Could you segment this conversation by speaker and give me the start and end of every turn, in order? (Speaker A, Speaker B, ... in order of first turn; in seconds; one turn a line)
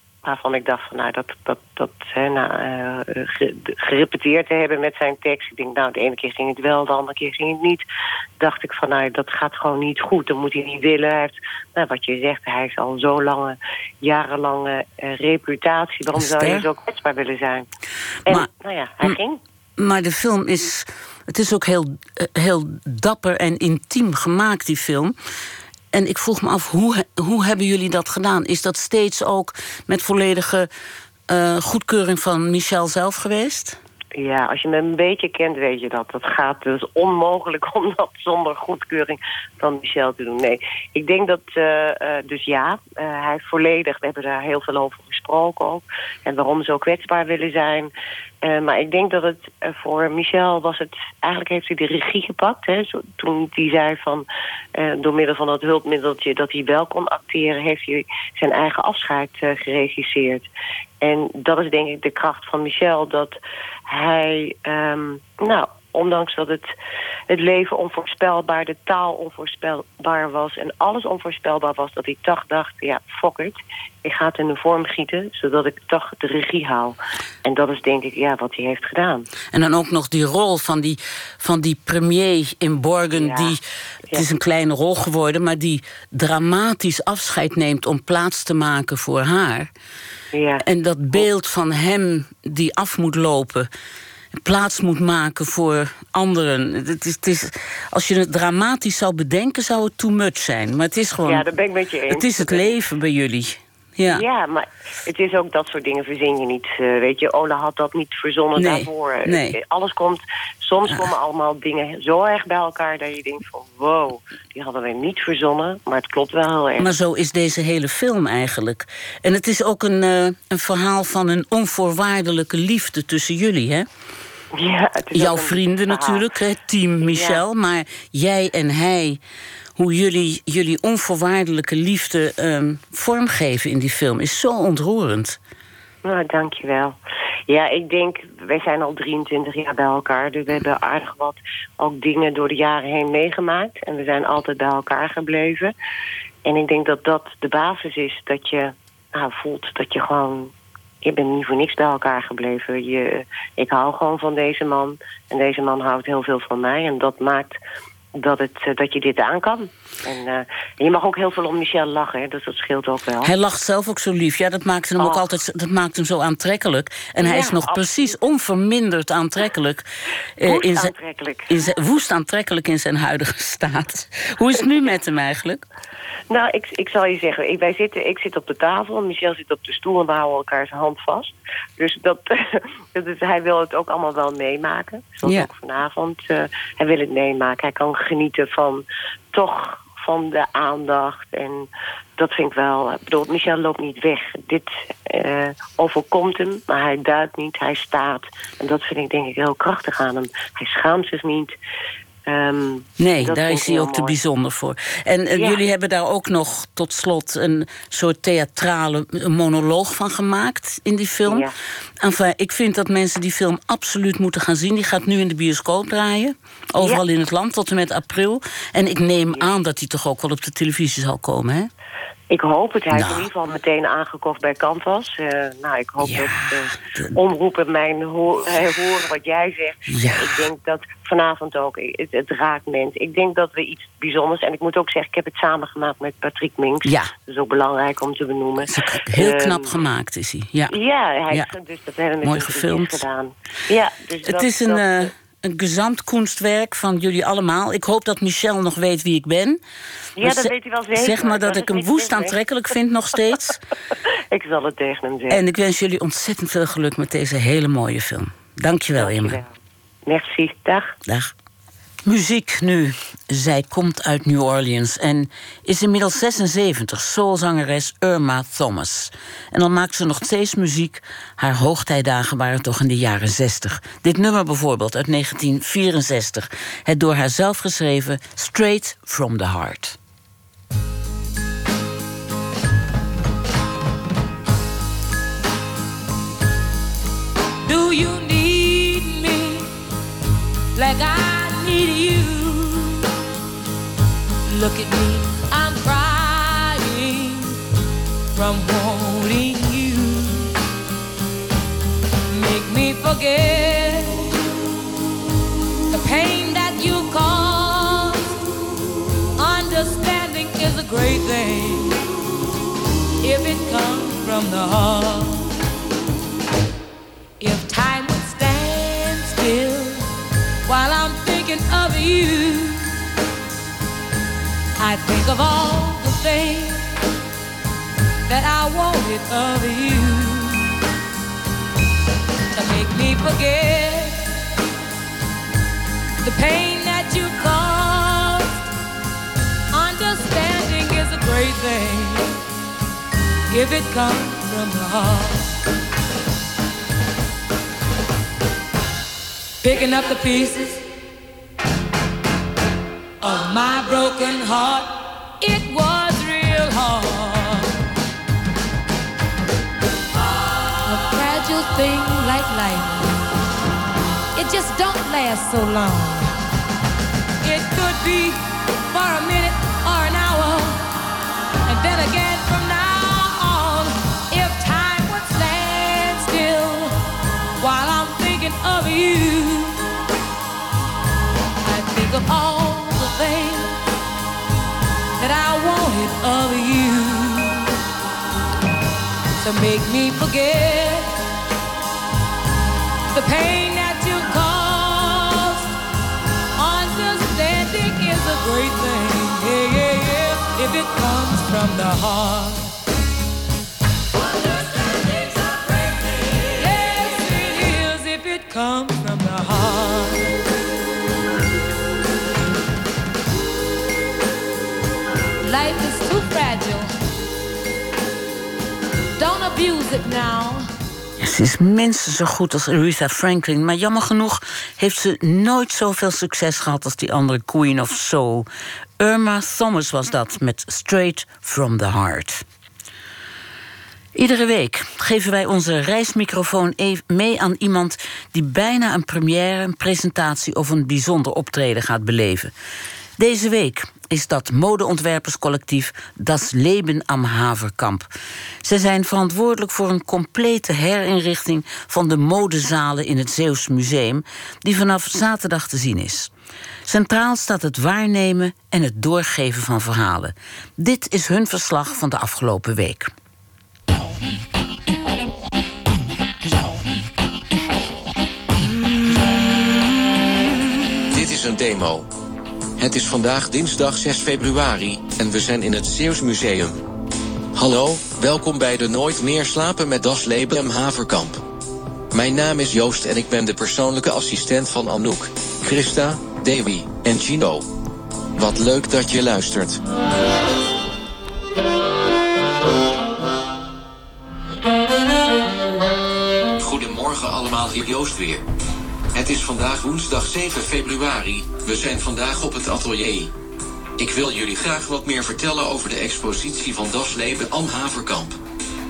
Speaker A: 0.2-7.8
Speaker A: 8.4-17.7
Speaker B: 16.2-16.7
Speaker A: 18.3-19.4
Speaker B: 19.8-25.2
Speaker B: 25.9-30.7
Speaker B: 31.3-33.8
Speaker A: 34.2-47.9
Speaker A: 48.5-54.3
Speaker A: 54.8-60.5
Speaker A: 61.0-63.4
Speaker A: 63.9-66.7
Speaker A: 67.3-79.3
Speaker B: 79.5-83.6
Speaker A: 83.2-83.6
Speaker B: 84.1-89.7
Speaker A: 90.3-90.6
Speaker B: 90.6-93.7
Speaker B: 94.4-101.4
Speaker A: 101.2-102.7
Speaker B: 102.1-104.2
Speaker A: 104.1-116.9
Speaker B: 108.6-109.6
Speaker B: 116.8-123.9
Speaker A: 124.5-126.3
Speaker B: 125.1-129.2
Speaker A: 127.1-127.4
Speaker B: 129.8-135.4
Speaker A: 136.0-137.0
Speaker A: 137.5-145.7
Speaker A: 146.5-150.5
Speaker A: 151.0-157.6
Speaker A: 158.2-163.3
Speaker B: 163.2-169.9
Speaker A: 165.0-165.3
Speaker A: 167.2-168.2
Speaker B: 170.4-170.9
Speaker A: 170.4-171.5
Speaker B: 171.5-175.6
Speaker A: 176.3-201.5
Speaker A: 202.3-204.2
Speaker B: 203.0-211.5
Speaker A: 205.3-205.6
Speaker A: 211.3-211.5
Speaker B: 212.0-221.7
Speaker A: 222.3-239.8
Speaker B: 222.9-223.3
Speaker B: 226.0-227.1
Speaker B: 229.9-230.5
Speaker B: 236.8-237.1
Speaker B: 238.7-240.7
Speaker A: 240.7-245.1
Speaker B: 242.2-243.1
Speaker B: 244.2-249.6
Speaker A: 250.2-252.3
Speaker B: 250.2-253.6
Speaker A: 254.3-255.4
Speaker B: 255.3-259.4
Speaker A: 258.9-259.5
Speaker A: 260.1-260.9
Speaker B: 261.1-261.3
Speaker B: 262.1-280.0
Speaker C: 287.6-289.7
Speaker C: 290.7-293.1
Speaker C: 294.5-297.6
Speaker C: 298.4-300.5
Speaker C: 302.3-304.4
Speaker C: 305.9-308.3
Speaker C: 309.4-312.0
Speaker C: 313.2-315.4
Speaker C: 317.4-320.1
Speaker C: 320.6-322.9
Speaker C: 324.8-326.9
Speaker C: 328.3-330.8
Speaker C: 332.5-334.4
Speaker C: 336.2-338.6
Speaker C: 339.7-342.4
Speaker C: 343.5-345.5
Speaker C: 349.6-350.8
Speaker C: 353.2-357.8
Speaker C: 360.7-363.1
Speaker C: 364.4-366.3
Speaker C: 367.4-370.8
Speaker C: 371.6-377.0
Speaker C: 377.6-379.9
Speaker C: 381.6-383.8
Speaker C: 385.2-387.8
Speaker C: 389.4-391.2
Speaker C: 393.1-395.7
Speaker C: 396.6-402.7
Speaker C: 404.8-405.6
Speaker C: 406.3-410.4
Speaker C: 415.4-416.9
Speaker C: 419.2-420.7
Speaker B: 421.2-428.5
Speaker B: 429.0-432.4
Speaker B: 434.1-442.5
Speaker B: 443.2-448.1
Speaker B: 448.6-456.3
Speaker B: 456.9-463.1
Speaker D: 471.1-472.1
Speaker D: 472.8-476.8
Speaker D: 477.5-481.4
Speaker D: 482.1-487.7
Speaker D: 488.4-489.8
Speaker D: 496.6-498.4
Speaker D: 499.1-503.3
Speaker D: 504.0-508.4